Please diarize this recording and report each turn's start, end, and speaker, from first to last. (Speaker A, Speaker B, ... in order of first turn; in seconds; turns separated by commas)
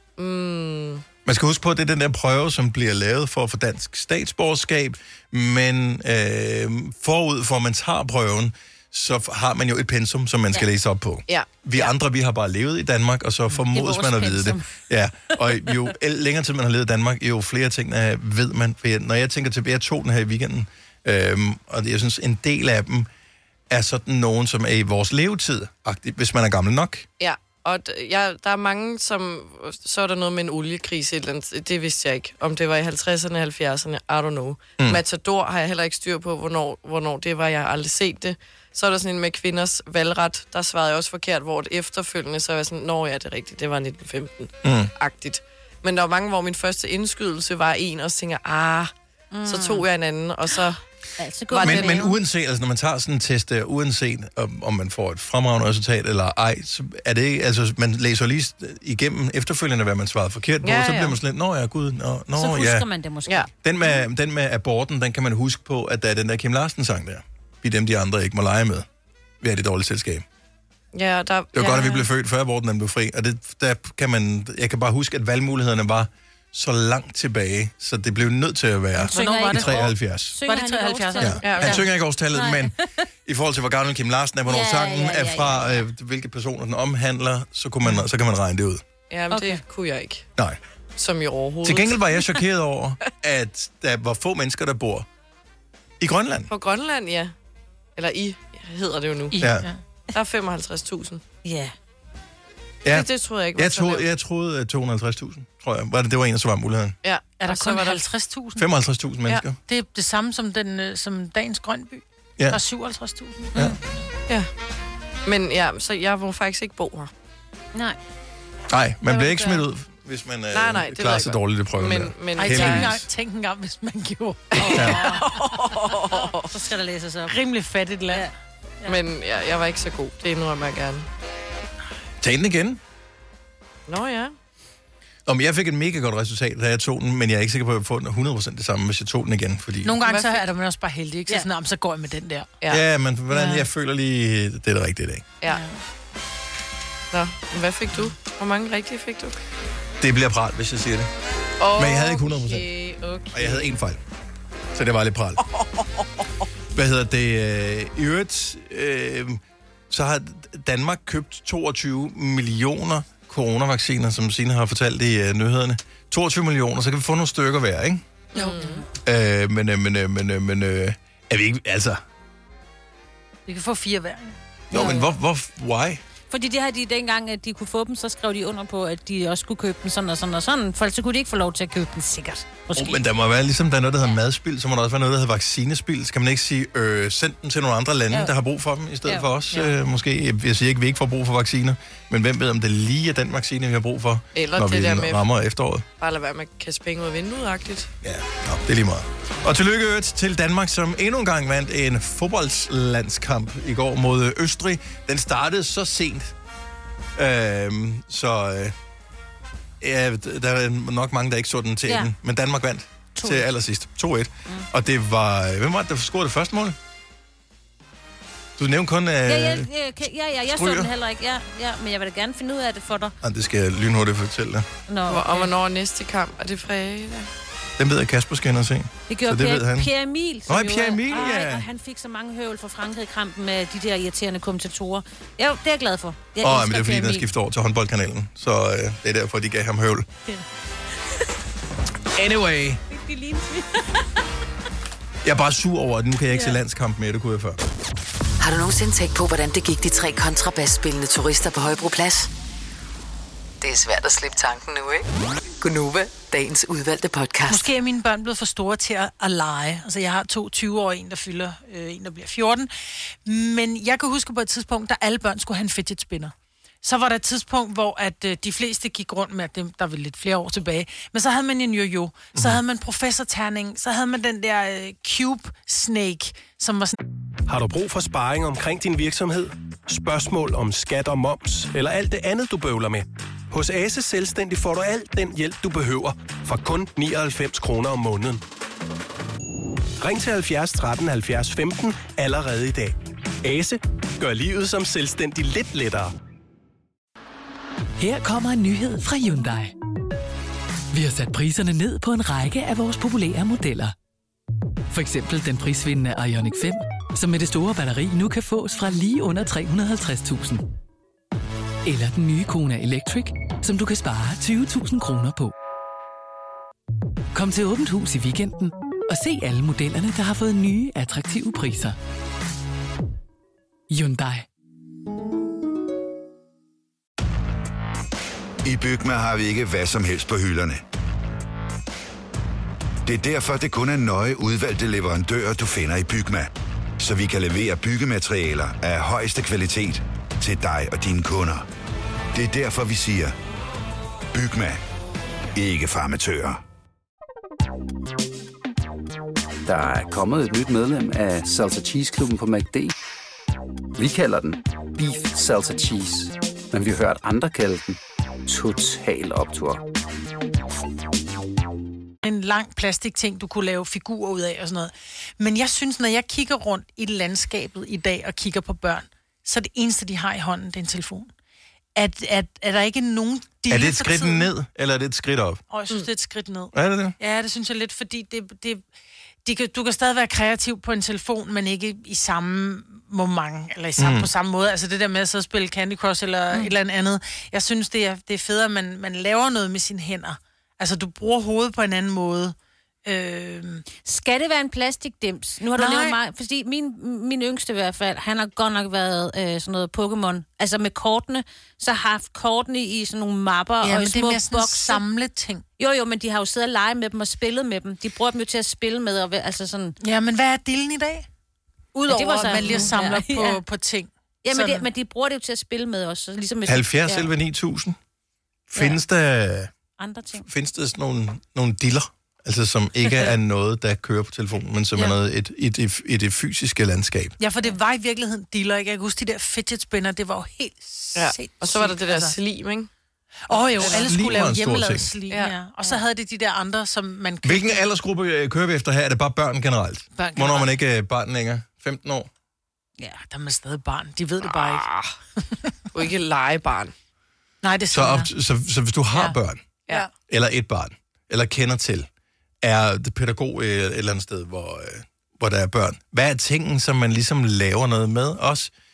Speaker A: 0.2-1.1, Speaker B: 1.2-23.1, Speaker A: 11.3-11.9, Speaker C: 13.5-14.7, Speaker B: 23.7-27.1, Speaker A: 27.2-48.9, Speaker B: 44.6-44.9, Speaker C: 49.3-49.9, Speaker A: 49.5-50.8, Speaker C: 51.2-52.2, Speaker A: 51.5-52.0, Speaker B: 51.6-62.9, Speaker A: 60.6-61.2, Speaker C: 62.3-63.5, Speaker B: 63.6-68.9, Speaker B: 69.4-70.2, Speaker A: 70.9-72.1, Speaker B: 71.5-80.4, Speaker C: 79.0-82.7, Speaker D: 79.1-79.9, Speaker D: 80.4-81.8, Speaker B: 81.2-82.7, Speaker A: 81.4-81.8, Speaker B: 83.3-88.8, Speaker C: 84.5-85.8, Speaker A: 89.1-90.3, Speaker C: 89.3-89.6, Speaker A: 91.0-92.4, Speaker B: 91.6-95.1, Speaker B: 96.0-96.5, Speaker A: 96.5-97.3, Speaker A: 98.0-99.4, Speaker D: 99.3-99.8, Speaker B: 99.4-99.7, Speaker A: 100.1-101.2, Speaker C: 101.4-101.7, Speaker B: 102.8-107.0, Speaker A: 102.9-104.1, Speaker A: 107.0-108.0, Speaker D: 107.4-108.7, Speaker B: 108.6-109.6, Speaker D: 109.7-113.6, Speaker A: 115.3-117.1, Speaker B: 118.7-123.0, Speaker C: 119.1-119.6, Speaker A: 120.5-122.9, Speaker D: 122.4-125.6, Speaker A: 124.5-126.5, Speaker C: 124.7-127.4, Speaker B: 124.7-125.0, Speaker D: 127.3-128.3, Speaker A: 128.9-131.1, Speaker B: 132.2-132.8, Speaker A: 133.9-134.3, Speaker B: 135.3-139.9, Speaker D: 139.8-142.5, Speaker A: 140.0-140.5, Speaker B: 142.7-145.3, Speaker D: 143.3-143.7, Speaker A: 147.1-149.4, Speaker B: 150.0-151.1, Speaker A: 151.6-153.7, Speaker B: 151.8-152.7, Speaker B: 153.3-154.0, Speaker B: 154.7-155.4, Speaker A: 155.6-155.8, Speaker B: 156.7-168.0, Speaker A: 168.3-168.8, Speaker C: 168.4-168.8, Speaker B: 169.0-172.0, Speaker D: 173.5-174.3, Speaker B: 174.7-176.0, Speaker C: 174.7-175.1, Speaker C: 176.3-183.0, Speaker B: 182.7-195.8, Speaker C: 189.1-189.7, Speaker A: 194.3-195.2, Speaker A: 196.0-197.9, Speaker B: 198.0-206.3, Speaker B: 207.2-208.8, Speaker B: 209.8-216.8, Speaker C: 211.9-212.1, Speaker C: 213.2-213.5, Speaker B: 218.6-219.7, Speaker C: 219.2-223.2, Speaker B: 220.5-220.9, Speaker B: 223.2-224.7, Speaker C: 224.9-225.5, Speaker A: 225.1-227.3, Speaker B: 227.8-229.9, Speaker C: 229.1-237.3, Speaker B: 230.5-231.7, Speaker B: 236.4-240.1, Speaker B: 242.2-242.8, Speaker C: 242.9-244.1, Speaker B: 245.2-247.6, Speaker C: 246.3-246.6, Speaker E: 248.4-252.3, Speaker E: 253.6-255.1, Speaker E: 255.6-257.7, Speaker D: 257.5-262.7, Speaker D: 263.2-277.0, Speaker B: 272.4-272.6, Speaker F: 277.5-288.4, Speaker F: 290.0-296.1, Speaker G: 298.0-299.7, Speaker G: 300.9-303.9, Speaker G: 304.9-310.6, Speaker G: 311.9-315.5, Speaker G: 317.3-322.0, Speaker G: 323.9-324.5, Speaker H: 328.6-330.8, Speaker H: 333.1-336.5, Speaker H: 337.0-341.7, Speaker H: 342.3-343.4, Speaker H: 344.3-344.8, Speaker H: 345.6-346.6, Speaker I: 349.7-352.9, Speaker I: 354.0-359.8, Speaker D: 362.2-371.3, Speaker D: 371.9-374.5, Speaker B: 373.7-375.6, Speaker D: 375.7-378.9, Speaker B: 376.7-377.2, Speaker D: 379.4-393.9, Speaker B: 384.0-384.3, Speaker C: 394.0-405.0, Speaker D: 395.8-396.2, Speaker D: 403.8-405.6, Speaker C: 405.8-410.0, Speaker D: 410.0-411.3, Speaker D: 411.9-414.9, Speaker C: 412.1-413.6, Speaker C: 414.4-417.3, Speaker B: 416.7-418.0, Speaker B: 418.7-419.7, Speaker C: 418.8-419.0, Speaker C: 420.0-420.5, Speaker B: 420.4-427.4, Speaker D: 427.4-432.4, Speaker A: 431.1-432.9, Speaker D: 433.5-437.8, Speaker A: 433.6-434.2, Speaker B: 433.9-435.1, Speaker A: 435.3-435.6, Speaker B: 437.4-442.3, Speaker D: 440.2-440.7, Speaker D: 443.2-444.9, Speaker A: 444.5-445.1, Speaker A: 445.9-446.9, Speaker D: 447.6-448.3, Speaker B: 447.9-449.7, Speaker B: 450.3-452.1, Speaker B: 452.6-458.7